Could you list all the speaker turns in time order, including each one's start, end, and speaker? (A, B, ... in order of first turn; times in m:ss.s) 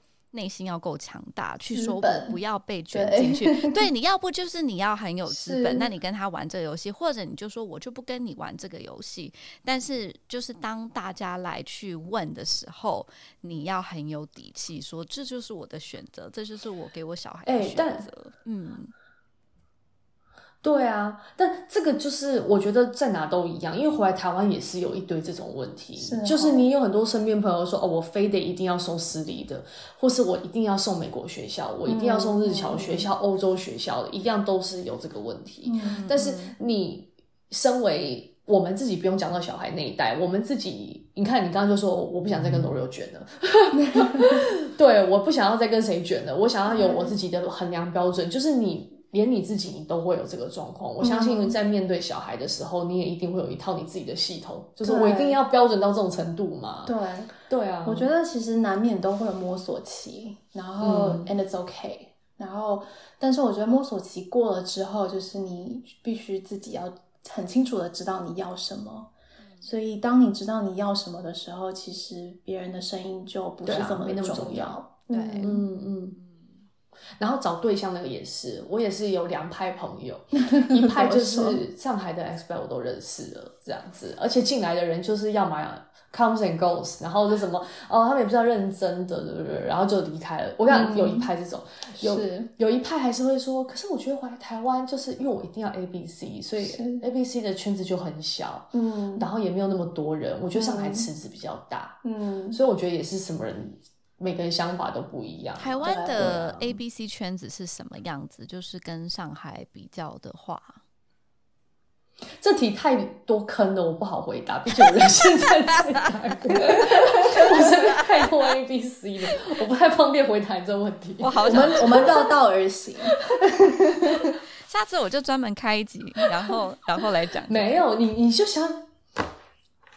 0:00.3-0:18.9 A
0:01.7-0:02.4 B
0:02.9-0:03.8 B
0:05.3-0:05.9 B
0:17.5-0:18.1 C
0:20.6-0:56.9 C
0:26.0-0:26.7 B
0:31.9-0:33.1 B
0:35.6-0:36.1 B
0:35.9-0:36.5 A
0:43.8-0:44.4 B
0:46.7-0:47.1 B
0:51.0-0:51.6 B
0:54.8-0:55.4 B
0:56.9-0:57.3 B
0:57.5-0:58.1 C
0:57.8-1:09.1 B
1:00.8-1:01.3 C
1:09.6-1:15.6 B
1:13.7-1:14.8 C
1:15.1-1:15.6 A
1:15.4-1:16.2 C
1:16.2-1:16.7 A
1:17.2-1:42.0 C
1:20.4-1:21.6 B
1:30.7-1:31.3 B
1:32.0-1:32.5 B
1:36.6-1:37.0 B
1:38.7-1:39.3 B
1:40.5-1:41.1 B
1:42.0-1:42.6 B
1:42.5-1:46.8 C
1:45.6-1:50.8 A
1:45.9-1:46.3 B
1:52.4-2:02.2 C
1:55.9-1:56.1 A
1:57.0-1:57.4 B
2:01.2-2:02.2 A
2:01.4-2:04.4 B
2:04.6-2:07.8 A
2:07.5-2:08.9 C